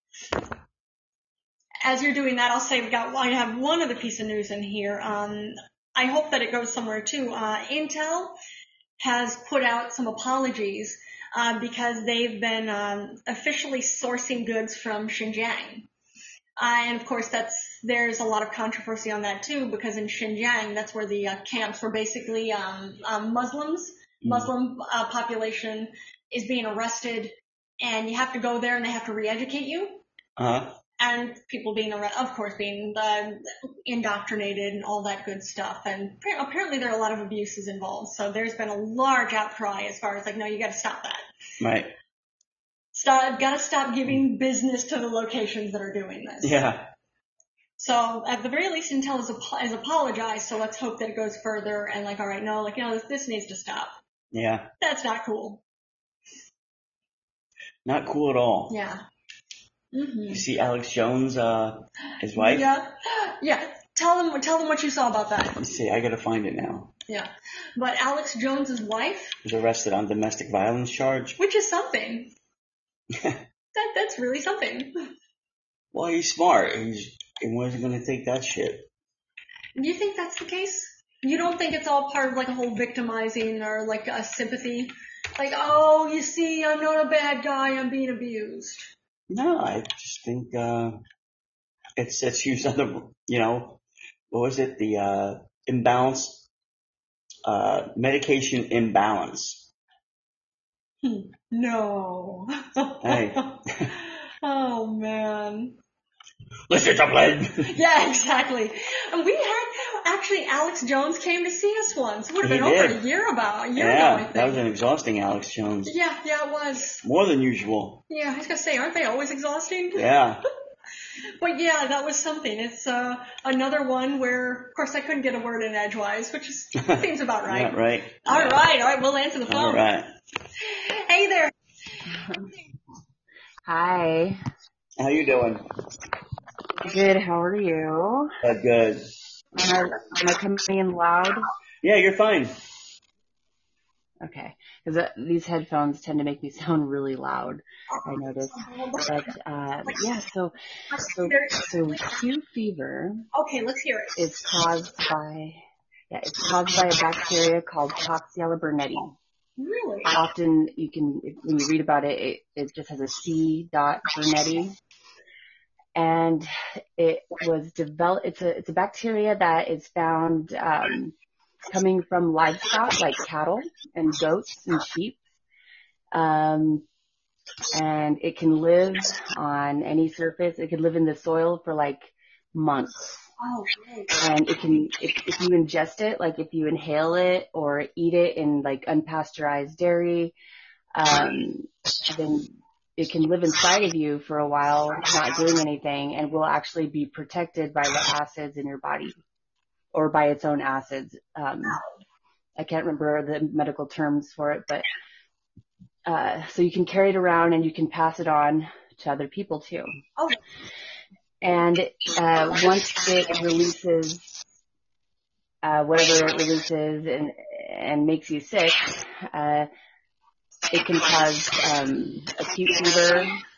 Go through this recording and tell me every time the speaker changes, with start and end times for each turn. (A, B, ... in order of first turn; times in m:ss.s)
0:01.8-0:08.4 A
0:09.0-0:15.9 A
0:16.6-0:30.0 A
0:24.2-0:24.5 B
0:30.4-0:30.8 B
0:31.0-0:41.2 A
0:41.6-0:41.9 B
0:42.9-0:46.5 A
0:46.4-0:46.9 B
0:47.8-0:53.9 A
0:54.3-0:54.7 B
0:54.8-0:55.6 A
0:57.8-0:58.8 B
0:58.7-0:59.0 A
0:59.9-1:00.4 A
1:00.3-1:02.7 B
1:02.4-1:05.6 A
1:05.6-1:06.9 B
1:07.1-1:09.4 A
1:09.4-1:11.4 B
1:11.4-1:12.3 A
1:13.1-1:13.4 B
1:13.7-1:14.9 A
1:15.9-1:18.9 B
1:19.8-1:28.9 A
1:29.3-1:31.0 B
1:32.0-1:36.4 B
1:37.4-1:39.7 B
1:41.0-1:45.8 A
1:43.0-1:43.9 B
1:46.7-1:47.7 B
1:47.6-1:54.6 A
1:52.4-1:53.0 B
1:53.7-1:55.9 B
1:55.8-1:57.0 A
1:57.0-1:58.0 B
1:58.1-2:00.1 A
1:59.9-2:00.4 B
2:01.4-2:09.8 A
2:06.8-2:08.6 B
2:09.5-2:10.1 B
2:10.6-2:11.5 A
2:12.1-2:12.5 C
2:13.6-2:14.4 C
2:15.0-2:15.6 B
2:16.8-2:18.3 C
2:18.4-2:19.1 B
2:19.5-2:21.5 C
2:21.8-2:22.6 B
2:24.2-2:30.5 C
2:27.9-2:29.2 A
2:30.9-2:31.7 A
2:31.0-2:33.2 C
2:33.3-2:34.2 A
2:34.2-2:39.2 C
2:39.6-2:40.1 A
2:40.1-2:44.8 C
2:45.9-2:51.1 C
2:51.7-2:55.2 C
2:56.1-2:56.8 C
2:57.7-3:03.3 C
3:03.4-3:04.1 A
3:04.2-3:10.3 C
3:10.9-3:19.2 C
3:19.9-3:21.8 C
3:21.7-3:22.0 A
3:22.6-3:24.9 C
3:26.0-3:30.0 C
3:31.4-3:34.3 C
3:35.6-3:39.7 C
3:40.7-3:43.4 C